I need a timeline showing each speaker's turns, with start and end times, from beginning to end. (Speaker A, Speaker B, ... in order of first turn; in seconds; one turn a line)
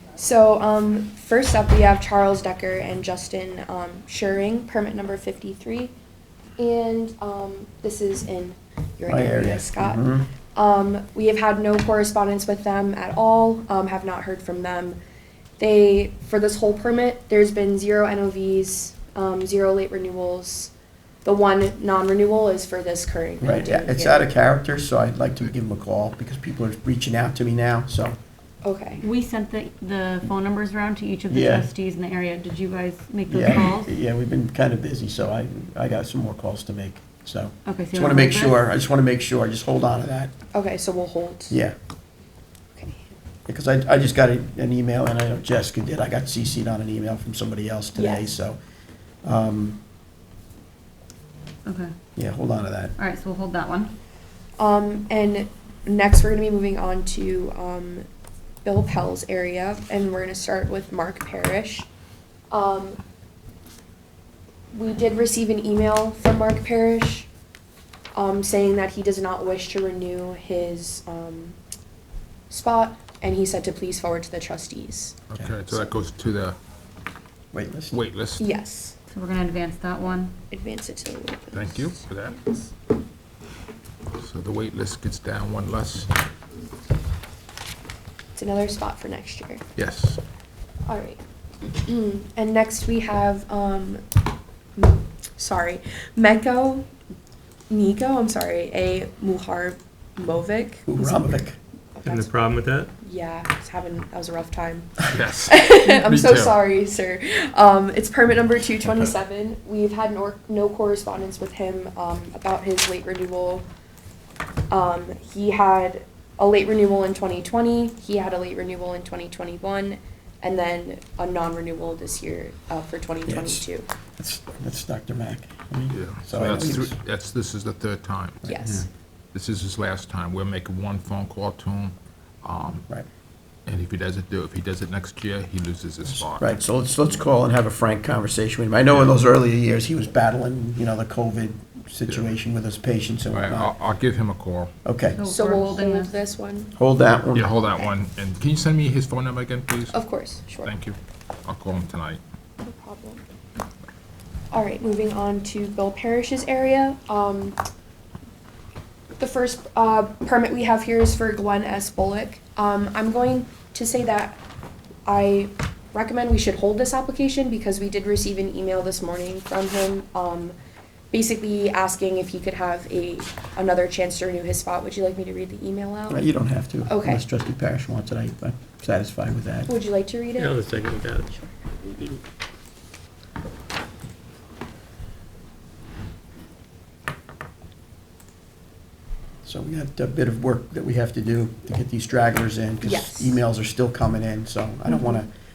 Speaker A: 0.1-5.9
Speaker A: 6.6-10.0
Speaker B: 9.1-10.3
Speaker A: 10.5-15.0
Speaker A: 15.6-20.7
Speaker A: 21.2-24.3
Speaker B: 23.4-28.2
Speaker A: 28.6-29.0
Speaker C: 29.0-33.9
Speaker B: 31.3-31.7
Speaker B: 33.3-40.3
Speaker C: 37.6-38.6
Speaker A: 40.5-41.5
Speaker B: 41.5-41.8
Speaker A: 42.8-43.1
Speaker B: 43.5-48.6
Speaker A: 47.9-48.3
Speaker B: 49.2-49.8
Speaker C: 51.6-51.9
Speaker B: 52.1-52.9
Speaker C: 53.0-53.9
Speaker A: 54.6-58.0
Speaker A: 58.6-61.9
Speaker A: 62.5-63.0
Speaker A: 64.7-67.3
Speaker A: 68.1-71.6
Speaker A: 72.5-75.9
Speaker D: 75.3-76.6
Speaker B: 77.5-78.0
Speaker D: 77.9-78.4
Speaker A: 78.4-78.9
Speaker C: 79.1-80.3
Speaker A: 80.5-82.4
Speaker D: 81.5-82.6
Speaker D: 84.2-86.1
Speaker A: 88.3-89.6
Speaker D: 89.8-90.2
Speaker A: 90.9-94.0
Speaker A: 94.8-96.9
Speaker A: 97.7-101.2
Speaker B: 100.9-101.5
Speaker A: 102.0-102.3
Speaker E: 102.0-102.9
Speaker A: 103.0-113.7
Speaker D: 105.1-106.6
Speaker A: 114.7-123.9
Speaker B: 123.3-123.7
Speaker B: 124.2-126.9
Speaker D: 125.9-128.4
Speaker B: 128.4-128.8
Speaker A: 128.4-128.9
Speaker D: 129.3-132.8
Speaker D: 133.7-136.6
Speaker B: 136.2-143.7
Speaker D: 138.9-139.2
Speaker D: 142.1-142.3
Speaker D: 143.3-144.7
Speaker B: 144.8-145.2
Speaker C: 145.1-146.1
Speaker A: 145.2-146.7
Speaker B: 146.8-147.6
Speaker D: 147.3-150.0
Speaker A: 149.9-150.7
Speaker D: 150.6-152.2
Speaker A: 152.6-153.2
Speaker A: 154.5-157.6
Speaker A: 159.2-164.4
Speaker A: 165.1-170.6
Speaker A: 171.1-176.2
Speaker B: 176.1-179.7
Speaker A: 176.8-177.2
Speaker A: 179.7-180.6
Speaker E: 180.4-181.4
Speaker B: 189.4-195.3
Speaker A: 192.8-193.4